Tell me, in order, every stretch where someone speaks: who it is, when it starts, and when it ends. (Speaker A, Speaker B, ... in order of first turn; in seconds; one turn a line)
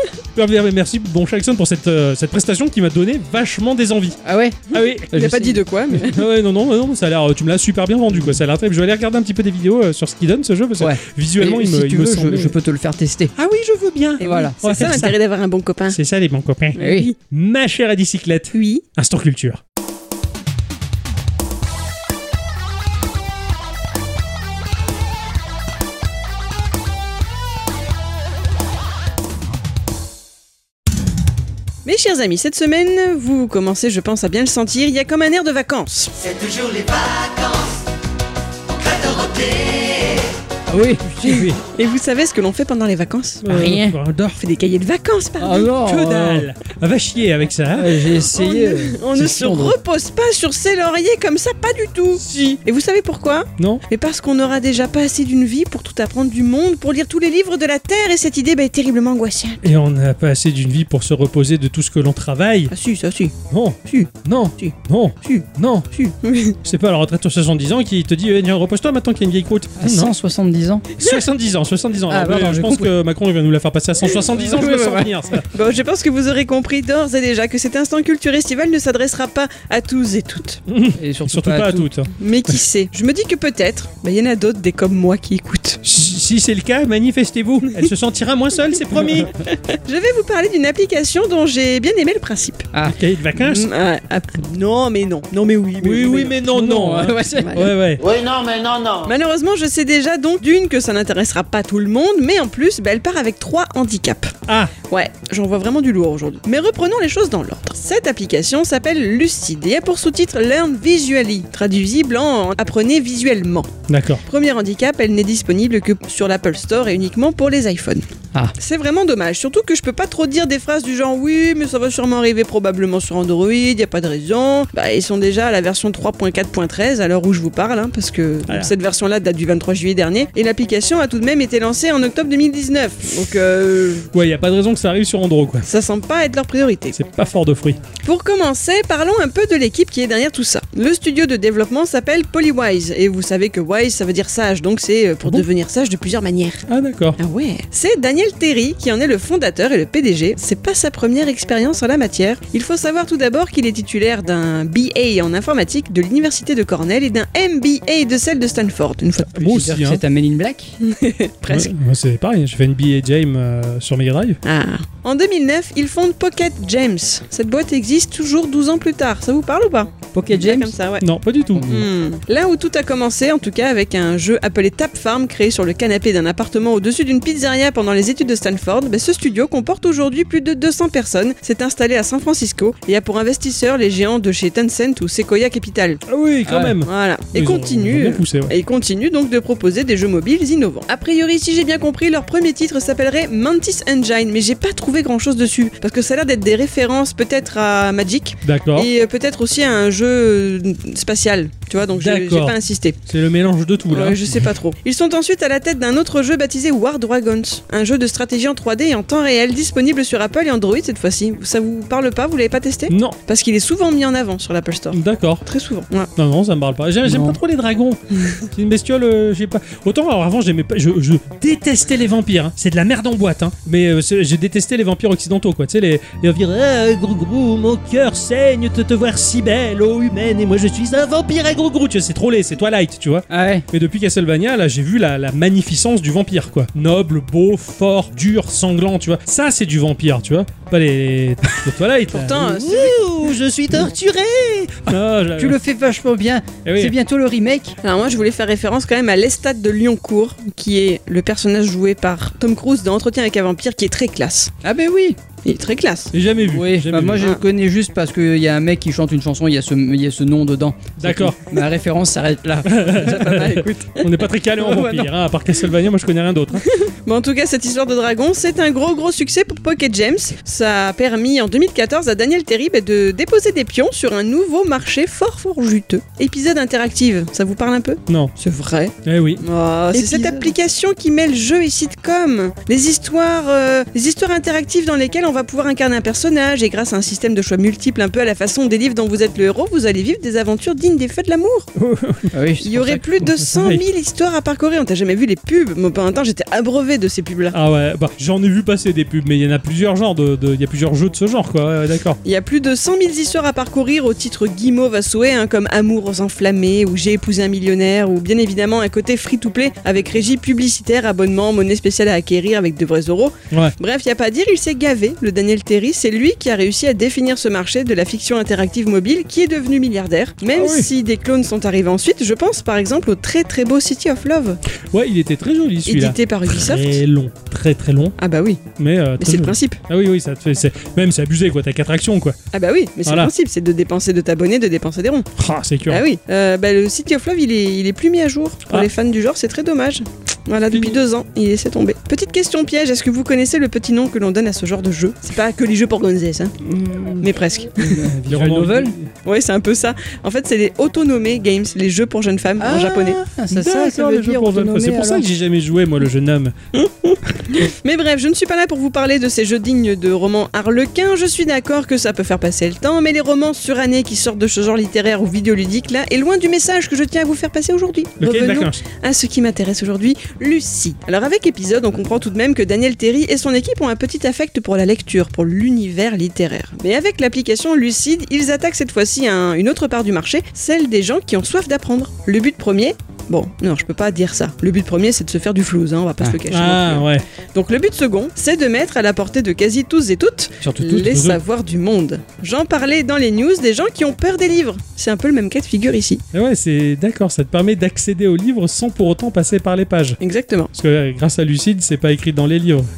Speaker A: 0.3-4.2
Speaker B: 4.2-5.4
Speaker A: 4.7-12.5
Speaker C: 5.1-6.2
Speaker B: 10.8-13.3
Speaker A: 13.3-15.2
Speaker C: 14.2-16.0
Speaker B: 14.2-14.6
Speaker A: 15.9-19.6
Speaker C: 16.8-17.1
Speaker B: 16.8-17.1
Speaker C: 18.5-18.8
Speaker C: 31.8-36.1
Speaker C: 39.4-39.7
Speaker B: 40.7-41.5
Speaker A: 41.2-41.6
Speaker C: 41.7-43.7
Speaker A: 43.4-44.4
Speaker B: 43.5-44.0
Speaker C: 44.4-45.6
Speaker B: 45.4-46.5
Speaker A: 45.8-48.0
Speaker B: 47.7-49.8
Speaker C: 48.2-59.6
Speaker A: 52.2-52.6
Speaker A: 59.6-62.7
Speaker C: 62.7-63.3
Speaker A: 63.5-65.9
Speaker C: 63.9-66.6
Speaker A: 66.6-70.1
Speaker B: 69.8-70.8
Speaker A: 71.0-75.5
Speaker B: 72.1-72.9
Speaker B: 74.3-75.1
Speaker C: 75.5-80.6
Speaker A: 80.7-82.1
Speaker B: 80.9-81.9
Speaker C: 82.2-85.8
Speaker A: 85.8-89.3
Speaker C: 89.2-92.7
Speaker A: 92.8-93.7
Speaker C: 93.4-96.4
Speaker A: 95.8-98.0
Speaker B: 96.5-97.6
Speaker C: 97.4-104.3
Speaker C: 104.9-113.7
Speaker A: 113.9-114.2
Speaker C: 114.3-118.0
Speaker C: 118.6-134.1
Speaker A: 134.1-135.7
Speaker C: 135.6-137.0
Speaker A: 136.9-137.8
Speaker C: 138.0-146.6
Speaker A: 146.7-147.2
Speaker C: 147.2-159.3
Speaker B: 159.3-160.8
Speaker A: 159.3-160.0
Speaker C: 160.8-161.7
Speaker A: 161.5-164.4
Speaker C: 164.4-171.0
Speaker B: 170.1-170.7
Speaker A: 171.0-171.7
Speaker B: 171.5-171.9
Speaker C: 171.7-186.0
Speaker A: 186.1-188.5
Speaker B: 186.4-186.8
Speaker C: 186.8-203.0
Speaker A: 198.4-198.9
Speaker A: 202.0-204.4
Speaker C: 203.9-216.1
Speaker A: 212.9-213.2
Speaker A: 214.9-215.4
Speaker A: 216.2-245.6
Speaker B: 217.0-217.4
Speaker B: 233.3-233.6
Speaker C: 242.1-243.0
Speaker B: 245.3-247.8
Speaker A: 246.6-246.9
Speaker C: 247.8-254.5
Speaker B: 254.6-255.2
Speaker C: 255.4-256.1
Speaker A: 256.1-257.3
Speaker B: 256.4-263.5
Speaker A: 261.0-261.4
Speaker A: 262.7-266.7
Speaker C: 263.1-264.2
Speaker B: 264.6-265.1
Speaker C: 266.7-291.7
Speaker A: 278.1-278.3
Speaker A: 279.0-279.4
Speaker B: 279.9-280.5
Speaker A: 291.8-292.3
Speaker B: 292.3-293.0
Speaker C: 292.6-297.5
Speaker A: 292.9-293.8
Speaker A: 297.5-302.2
Speaker C: 302.2-324.6
Speaker A: 320.6-320.9
Speaker A: 324.9-328.1
Speaker C: 325.9-327.0
Speaker C: 328.2-328.6
Speaker A: 328.8-332.4
Speaker C: 329.2-329.8
Speaker C: 332.5-335.3
Speaker A: 333.1-333.3
Speaker A: 335.4-336.0
Speaker C: 335.9-346.5
Speaker A: 340.7-341.0
Speaker B: 346.7-348.9
Speaker C: 347.2-348.0
Speaker A: 348.3-349.1
Speaker C: 349.2-353.2
Speaker B: 352.6-355.3
Speaker A: 353.5-356.5
Speaker C: 356.8-396.2
Speaker A: 368.2-368.8
Speaker A: 386.5-387.2
Speaker B: 390.6-391.1
Speaker A: 390.9-391.4
Speaker A: 396.3-400.2
Speaker C: 400.2-400.7
Speaker A: 400.7-402.9